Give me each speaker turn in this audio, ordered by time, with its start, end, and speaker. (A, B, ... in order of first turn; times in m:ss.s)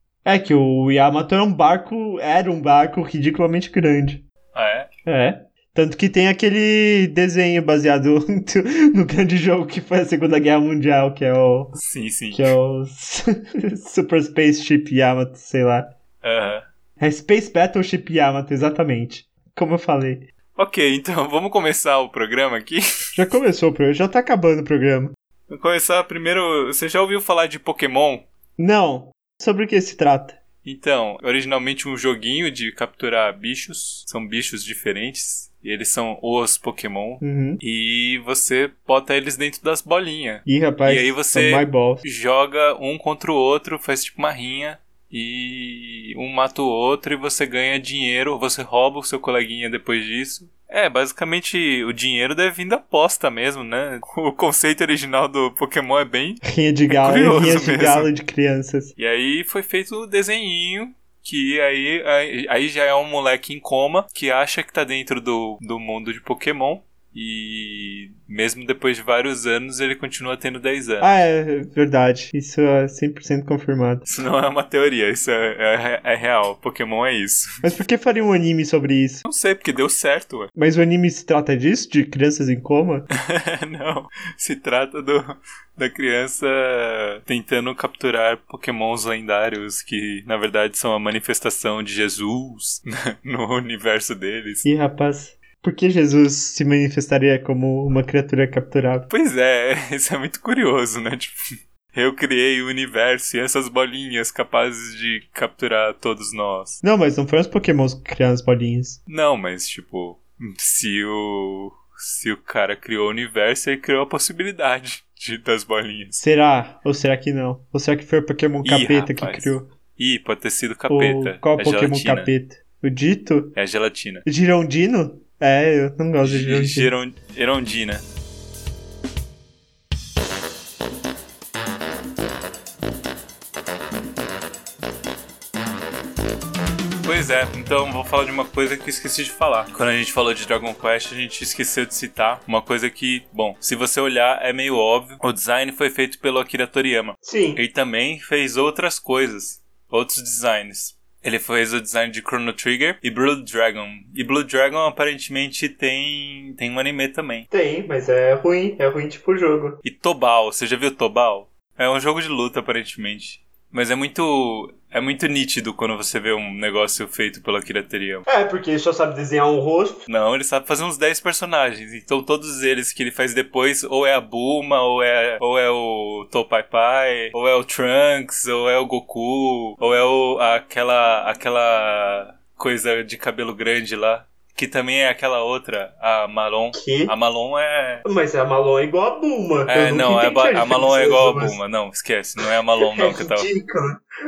0:00.2-0:04.2 A
0:04.5-0:04.9 B
0:05.0-0:11.8 A
0:11.8-0:12.5 B
0:12.3-0:15.9 A
0:16.2-0:16.6 B
0:17.0-0:20.2 A
0:20.6-0:22.8 B
0:23.1-0:25.1 A
0:25.5-0:28.2 B
0:28.6-0:30.4 A
0:30.6-0:58.1 B
0:37.2-0:37.6 A
0:40.4-0:42.0 A
0:56.4-0:58.9 A
0:59.0-1:11.1 B
1:11.0-1:14.0 A
1:14.0-1:17.5 B
1:17.6-1:19.2 A
1:19.2-1:20.5 B
1:20.5-1:23.1 A
1:23.2-1:34.7 B
1:34.6-1:39.1 A
1:39.1-1:41.4 B
1:41.9-1:46.8 B
1:46.8-1:49.0 A
1:49.1-1:56.2 B
1:56.2-1:59.7 A
1:58.6-2:02.3 B
2:00.9-2:03.6 A
2:03.5-2:04.2 B
2:04.2-2:06.9 A
2:06.2-2:08.0 B
2:17.0-2:37.5 B
2:27.2-2:27.6 A
2:37.5-2:39.8 A
2:39.8-2:48.2 B
2:48.3-2:50.0 A
2:50.1-3:08.0 B
3:06.7-3:07.1 A
3:08.0-3:11.6 A
3:09.7-3:13.5 B
3:12.8-3:14.0 A